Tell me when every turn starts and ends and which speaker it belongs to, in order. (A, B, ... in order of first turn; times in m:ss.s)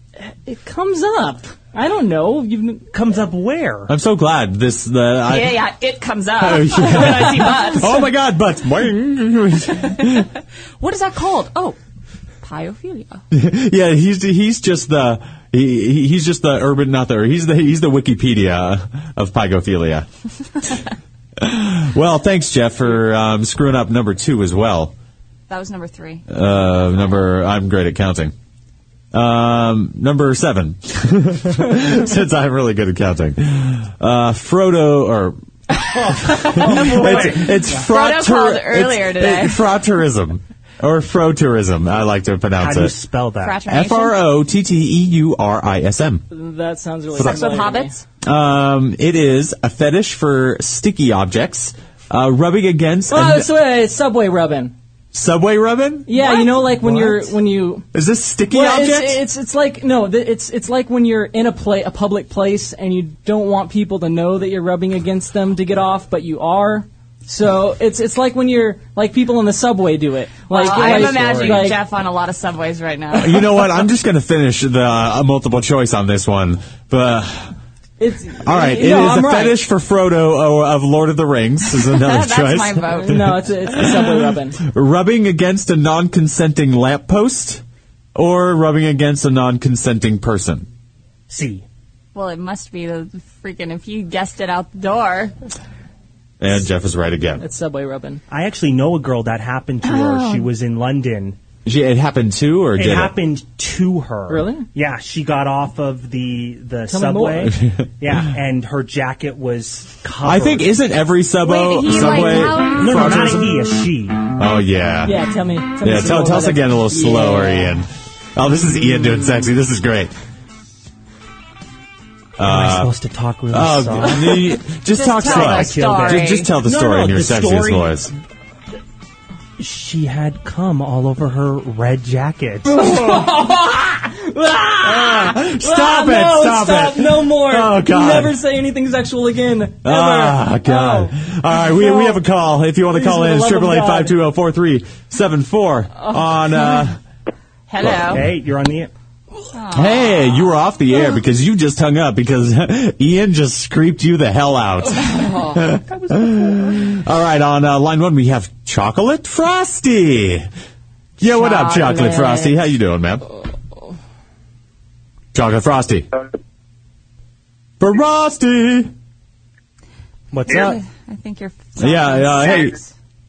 0:00.2-0:02.8 A
0:02.9-0:03.9 B
0:03.9-0:05.6 C
0:05.3-0:08.0 D
0:06.4-0:10.3 C
0:10.8-0:11.8 D
0:12.4-0:13.2 D
0:13.3-0:20.1 C
0:21.4-0:24.9 C
0:25.5-0:26.2 D
0:26.3-0:28.3 C
0:29.1-0:35.4 C
0:36.0-0:37.8 B
0:36.3-0:42.9 C
0:36.4-0:39.6 D
0:42.6-0:43.6 B
0:43.4-0:44.2 D
0:43.7-0:46.2 C
0:46.3-0:47.9 A
0:47.1-0:47.6 C
0:47.2-0:48.0 D
0:48.2-0:53.5 C
0:53.1-0:54.8 A
0:55.1-0:56.1 C
0:56.1-0:57.8 A
0:56.4-0:57.3 B
0:57.9-0:59.2 C
0:58.5-1:11.8 A
1:10.5-1:13.7 D
1:10.6-1:11.7 B
1:13.1-1:17.5 C
1:18.0-1:19.6 A
1:18.4-1:27.6 C
1:21.9-1:23.3 D
1:22.9-1:24.6 A
1:28.2-1:30.7 C
1:31.3-1:31.6 B
1:32.2-1:35.4 D
1:36.4-1:37.4 C
1:37.4-1:38.2 A
1:38.3-1:41.4 B
1:39.8-1:40.5 D
1:41.6-1:43.2 C
1:42.8-1:50.7 B
1:44.3-1:44.7 A
1:46.9-1:47.6 A
1:50.2-1:53.6 C
1:51.4-1:53.3 D
1:52.7-1:54.2 B
1:54.4-1:55.2 C
1:55.0-1:57.8 A
1:55.8-2:00.1 C
2:02.4-2:02.9 C
2:02.4-2:04.5 B
2:03.5-2:08.1 C
2:04.9-2:06.5 D
2:05.2-2:08.1 B
2:09.6-2:12.8 B
2:12.7-2:22.2 A
2:14.8-2:18.4 C
2:19.8-2:27.0 C
2:22.9-2:24.2 A
2:27.7-2:28.2 D
2:27.8-2:28.9 B
2:29.5-2:30.3 D
2:29.7-2:40.5 C
2:41.2-2:42.6 D
2:41.2-2:43.2 C
2:45.3-2:46.1 C
2:47.8-2:48.9 C
2:50.3-2:50.8 B
2:50.5-2:52.9 D
2:51.8-2:52.8 C